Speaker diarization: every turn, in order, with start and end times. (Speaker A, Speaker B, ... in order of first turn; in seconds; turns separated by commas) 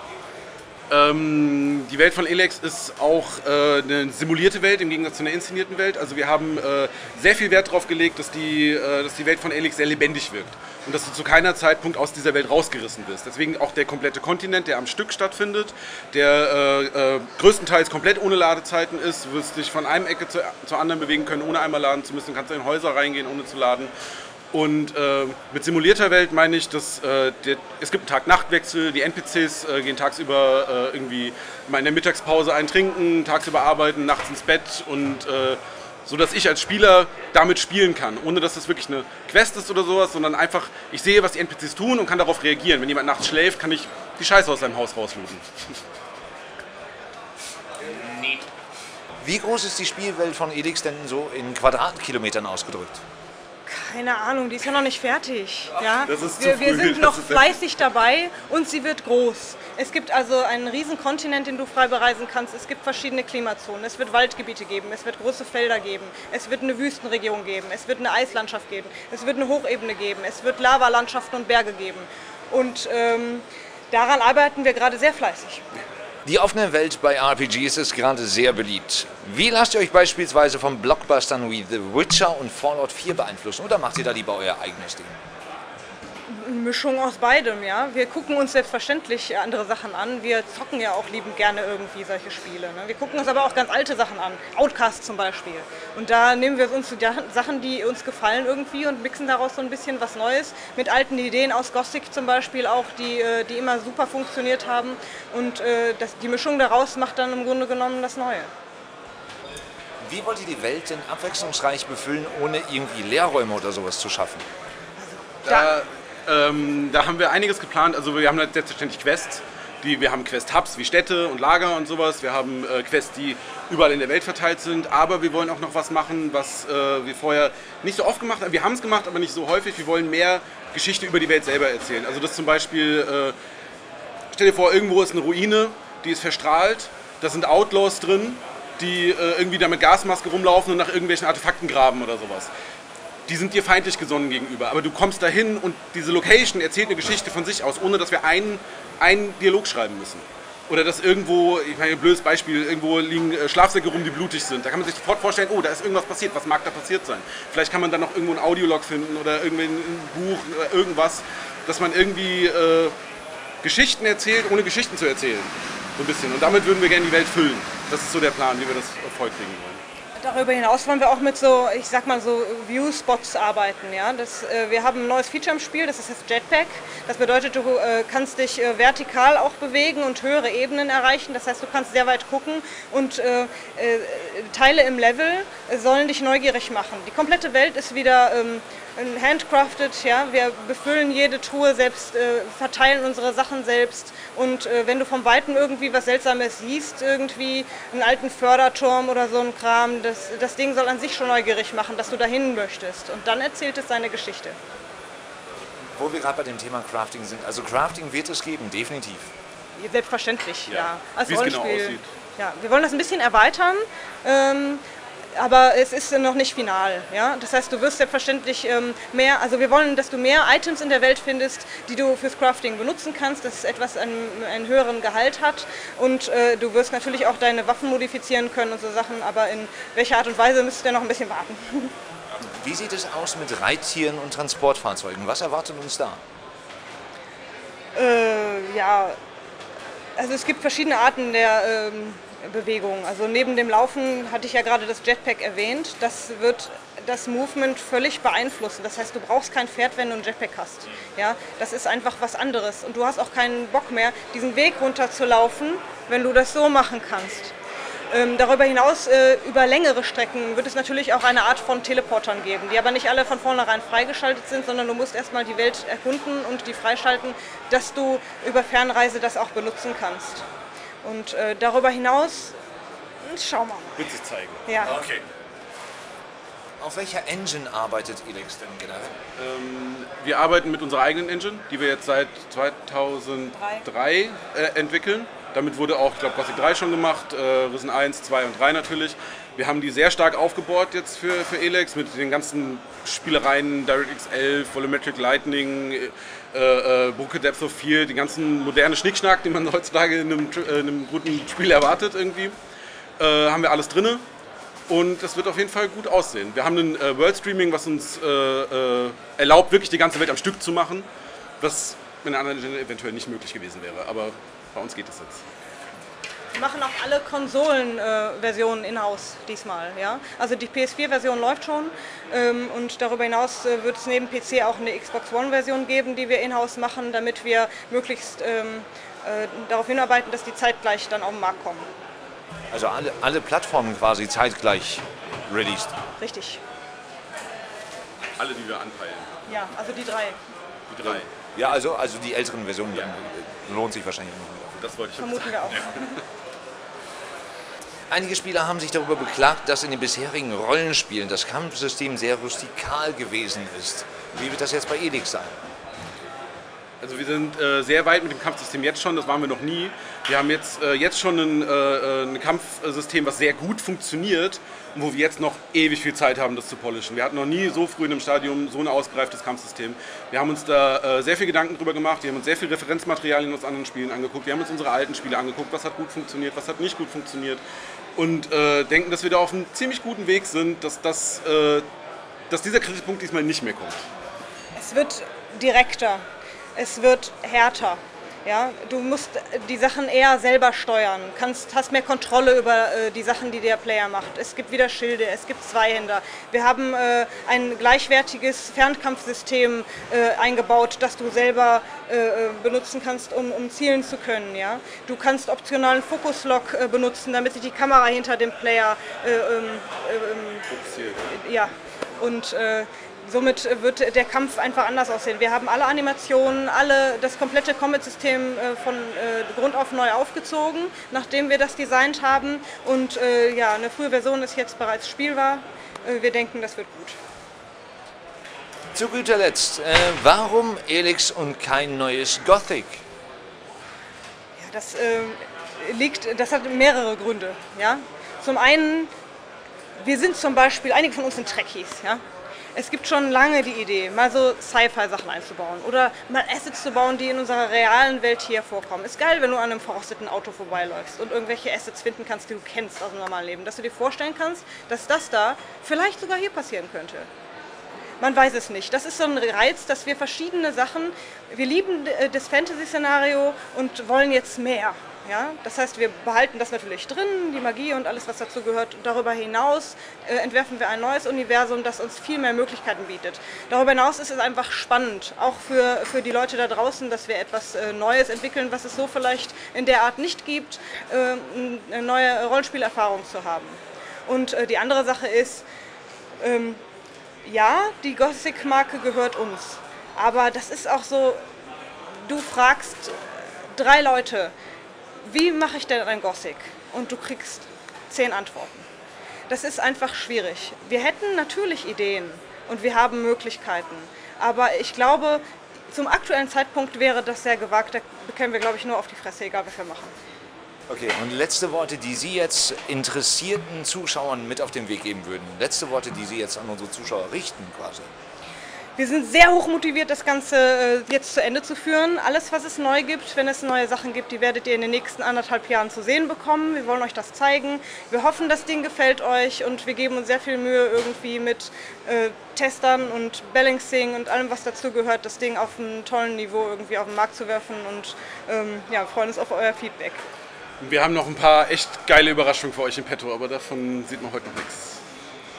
Speaker A: 0.9-23.9, Speaker A: 24.5-45.8, Speaker B: 47.9-48.4, Speaker B: 49.2-53.0, Speaker C: 53.7-75.6, Speaker A: 55.9-57.6, Speaker B: 76.2-85.2, Speaker C: 86.3-108.5, Speaker B: 110.0-114.5, Speaker C: 115.0-115.7, Speaker A: 115.5-133.4, Speaker A: 134.3-142.5, Speaker A: 143.3-162.9, Speaker A: 163.6-169.8, Speaker C: 170.2-204.6, Speaker B: 205.9-209.3, Speaker C: 209.8-214.8, Speaker A: 210.7-212.1, Speaker C: 215.3-231.9, Speaker B: 232.4-236.2, Speaker C: 237.9-239.2, Speaker C: 240.2-257.5, Speaker C: 258.1-270.4, Speaker C: 271.0-272.6, Speaker C: 273.2-274.1, Speaker A: 274.0-274.6, Speaker C: 274.7-274.9, Speaker B: 275.0-275.2, Speaker B: 276.8-279.2, Speaker A: 279.4-302.6, Speaker C: 283.6-283.8, Speaker A: 303.2-304.2, Speaker A: 304.9-311.1, Speaker A: 311.6-315.4, Speaker C: 316.5-331.9, Speaker B: 332.7-335.9, Speaker C: 336.2-336.6, Speaker A: 338.4-339.3, Speaker C: 339.5-340.4, Speaker A: 340.9-341.3, Speaker B: 341.5-344.7, Speaker A: 344.7-346.1, Speaker C: 345.2-346.2, Speaker B: 348.1-355.6, Speaker A: 357.0-377.6, Speaker A: 378.2-381.9, Speaker A: 382.5-384.1, Speaker C: 384.8-386.2, Speaker C: 386.8-410.7, Speaker A: 410.7-411.3, Speaker C: 411.3-427.2, Speaker B: 428.9-433.0, Speaker C: 434.6-439.1, Speaker C: 440.0-442.2, Speaker C: 442.7-457.3, Speaker C: 458.2-485.6, Speaker C: 486.4-486.8, Speaker C: 487.4-491.4, Speaker C: 492.1-494.5, Speaker C: 495.2-498.9, Speaker C: 499.5-510.1, Speaker B: 510.9-518.1, Speaker C: 519.0-540.2, Speaker A: 540.8-545.0